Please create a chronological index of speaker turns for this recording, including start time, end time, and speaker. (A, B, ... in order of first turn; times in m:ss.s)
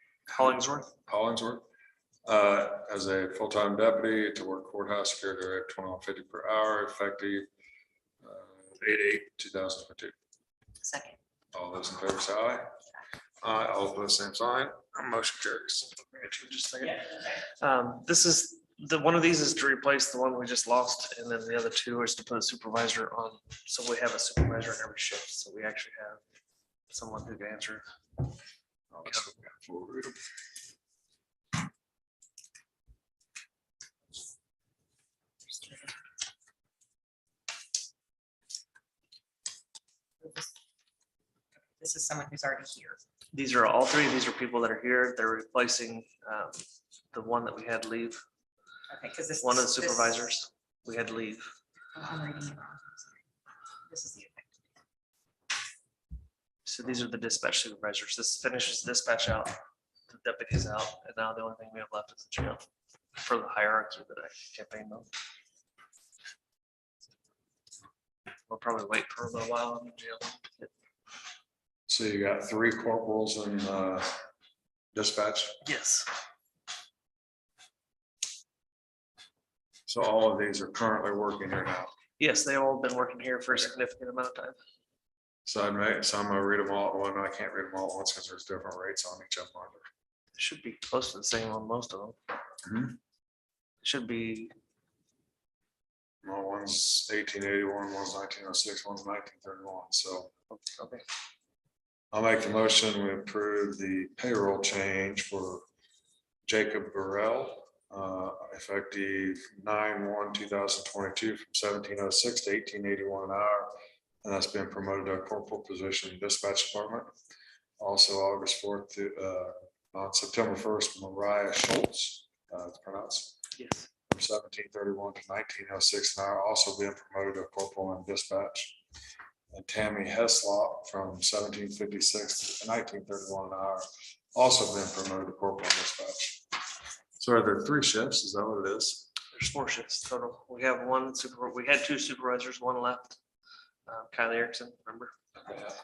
0:00.3-0:00.9 A
0:00.4-0:01.6 B
0:02.3-0:07.5 B
0:08.2-0:10.2 B
0:10.8-0:11.2 C
0:11.5-0:12.6 B
0:13.4-0:16.0 B
0:16.0-0:17.0 A
0:17.6-0:26.2 A
0:26.9-0:27.8 A
0:28.9-0:30.2 B
0:29.1-0:29.3 A
0:35.5-0:36.0 C
0:40.2-0:40.5 C
0:41.8-0:43.0 C
0:43.3-0:46.6 A
0:47.1-0:48.2 A
0:48.9-0:50.3 C
0:49.4-0:51.5 A
0:51.9-0:53.2 C
0:53.9-0:54.6 C
0:56.6-0:59.6 A
1:00.1-1:02.6 A
1:03.2-1:05.1 A
1:08.5-1:10.7 A
1:11.9-1:14.1 B
1:15.0-1:15.6 B
1:15.6-1:16.1 A
1:19.9-1:21.9 B
1:22.2-1:24.6 A
1:25.5-1:29.9 B
1:30.4-1:32.2 A
1:32.6-1:33.0 B
1:33.8-1:34.5 A
1:36.2-1:40.3 B
1:40.5-1:41.0 A
1:42.1-1:45.6 B
1:46.5-1:53.7 B
1:54.2-1:57.1 B
1:57.8-2:03.4 B
2:03.6-2:03.9 A
2:04.1-2:08.8 B
2:09.5-2:16.4 B
2:17.2-2:19.1 B
2:19.3-2:23.2 A
2:23.9-2:25.1 A
2:25.5-2:25.7 B